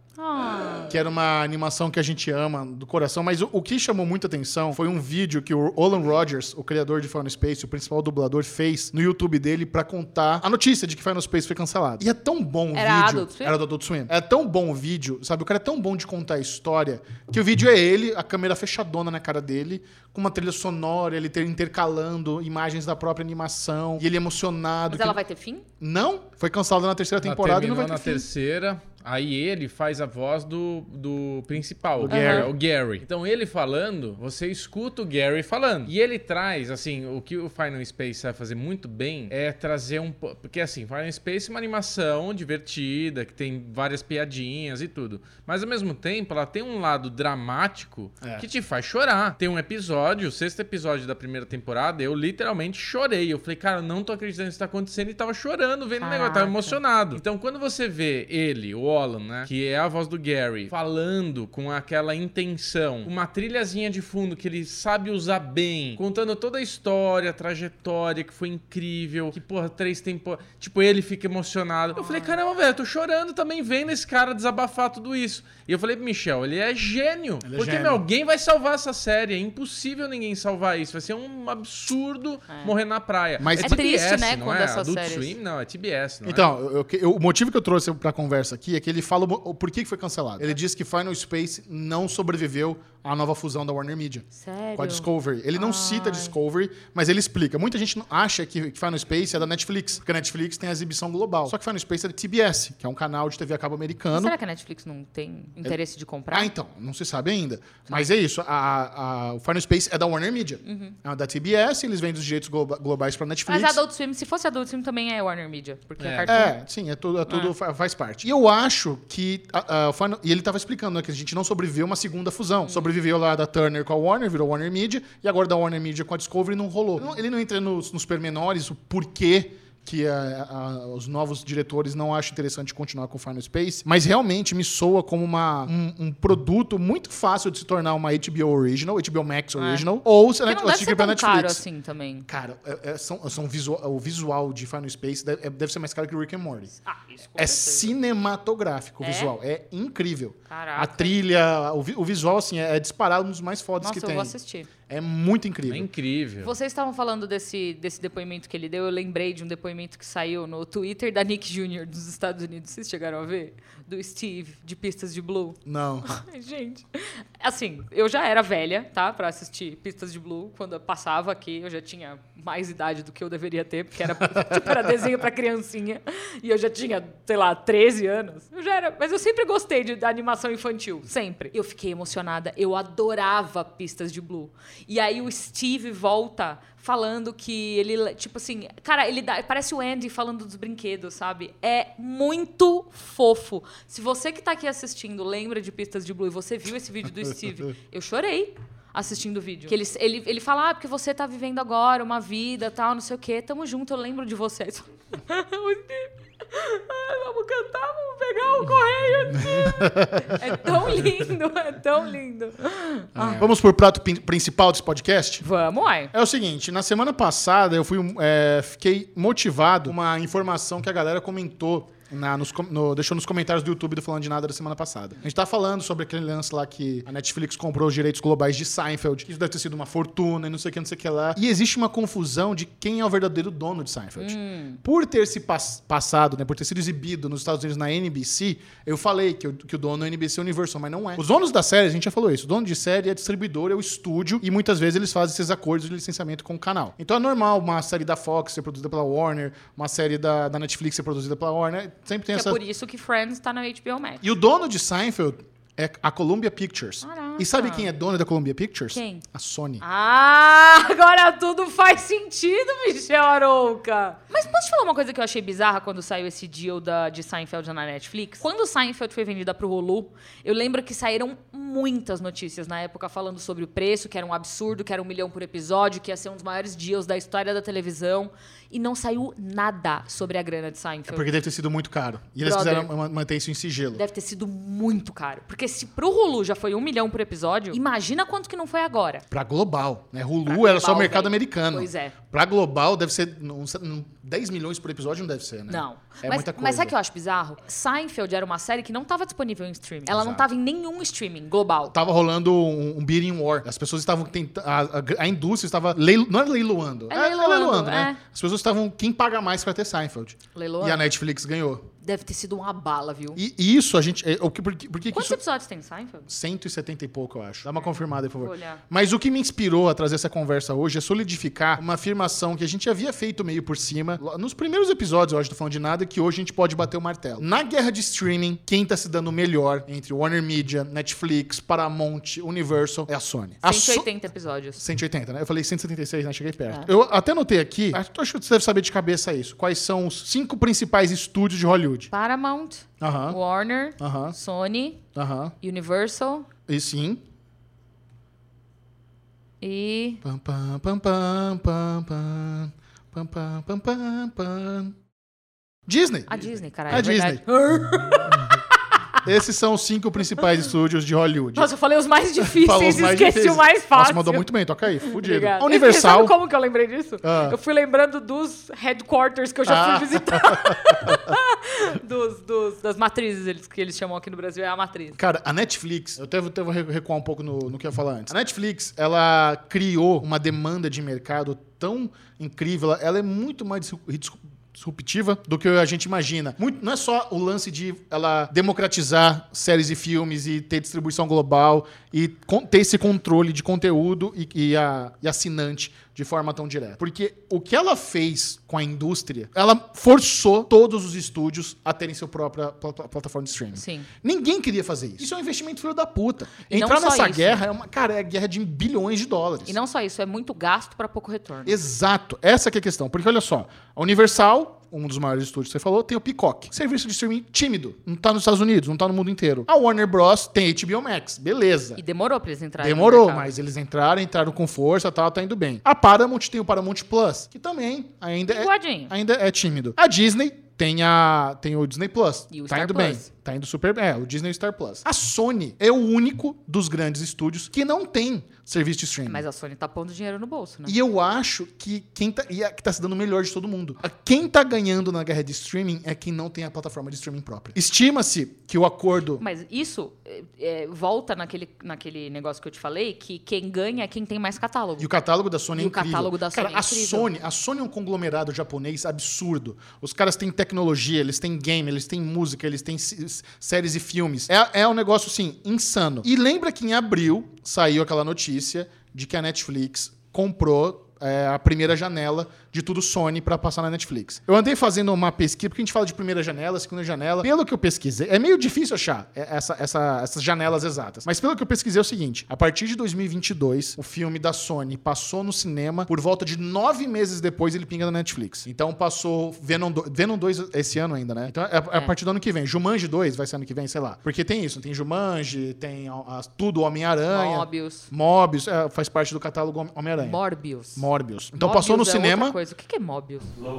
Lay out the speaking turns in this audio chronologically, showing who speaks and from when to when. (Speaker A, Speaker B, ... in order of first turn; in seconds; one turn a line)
Speaker A: 0.2-1.0
Speaker B: 0.8-25.2
Speaker A: 12.7-13.6
Speaker A: 24.9-25.7
Speaker B: 25.8-28.2
Speaker C: 27.2-86.5
Speaker B: 32.0-32.5
Speaker A: 32.1-32.5
Speaker A: 56.0-56.8
Speaker A: 72.0-72.4
Speaker B: 77.4-78.0
Speaker B: 83.4-83.8
Speaker A: 83.6-85.3
Speaker B: 86.2-104.3
Speaker A: 94.3-96.3
Speaker A: 104.1-106.5
Speaker B: 106.3-113.8
Speaker A: 110.6-111.0
Speaker A: 113.5-116.5
Speaker C: 116.0-116.4
Speaker B: 116.2-141.6
Speaker A: 139.6-139.9
Speaker A: 140.5-142.3
Speaker B: 142.3-146.7
Speaker A: 146.8-147.9
Speaker B: 147.4-154.3
Speaker A: 149.0-149.3
Speaker A: 150.5-151.2
Speaker A: 153.8-154.7
Speaker B: 154.9-155.9
Speaker C: 155.7-156.5
Speaker A: 156.4-213.5
Speaker B: 165.7-166.2
Speaker B: 174.3-174.9
Speaker B: 209.3-210.5
Speaker B: 213.2-215.4
Speaker A: 215.4-216.1
Speaker B: 216.1-252.6
Speaker A: 234.2-234.8
Speaker A: 252.3-254.2
Speaker B: 254.2-259.8
Speaker A: 257.0-257.9
Speaker A: 258.9-259.2
Speaker A: 259.8-281.3
Speaker B: 281.1-284.0
Speaker A: 282.4-282.9
Speaker A: 283.9-289.2
Speaker B: 289.3-296.9
Speaker A: 290.5-292.1
Speaker A: 295.7-301.9
Speaker B: 300.1-300.5
Speaker B: 301.9-311.9
Speaker A: 307.1-308.2
Speaker A: 310.6-311.1
Speaker A: 312.0-313.4
Speaker B: 313.4-315.4
Speaker A: 315.1-316.3
Speaker B: 316.3-334.1
Speaker A: 318.4-318.8
Speaker A: 333.6-334.8
Speaker B: 334.8-342.1
Speaker A: 342.1-345.0
Speaker B: 343.0-343.4
Speaker B: 344.0-344.4
Speaker B: 345.1-345.5
Speaker A: 345.6-346.5
Speaker B: 346.7-347.2
Speaker A: 349.6-350.2
Speaker B: 350.2-354.9
Speaker B: 355.9-357.4
Speaker A: 356.3-359.2
Speaker B: 359.2-361.7
Speaker A: 361.6-375.2
Speaker B: 362.4-366.4
Speaker B: 367.2-367.6
Speaker B: 369.7-371.4
Speaker B: 375.1-409.8
Speaker A: 403.8-404.1
Speaker A: 406.7-407.6
Speaker A: 409.7-411.8
Speaker B: 411.6-422.0
Speaker A: 422.0-423.5
Speaker B: 422.8-439.4
Speaker A: 428.5-429.1
Speaker A: 432.5-433.3
Speaker A: 439.3-441.0
Speaker B: 440.9-449.4
Speaker A: 449.4-455.1
Speaker B: 455.0-500.4
Speaker A: 455.8-457.3
Speaker A: 497.3-498.1
Speaker A: 500.2-501.1
Speaker B: 500.9-502.6
Speaker A: 501.6-503.5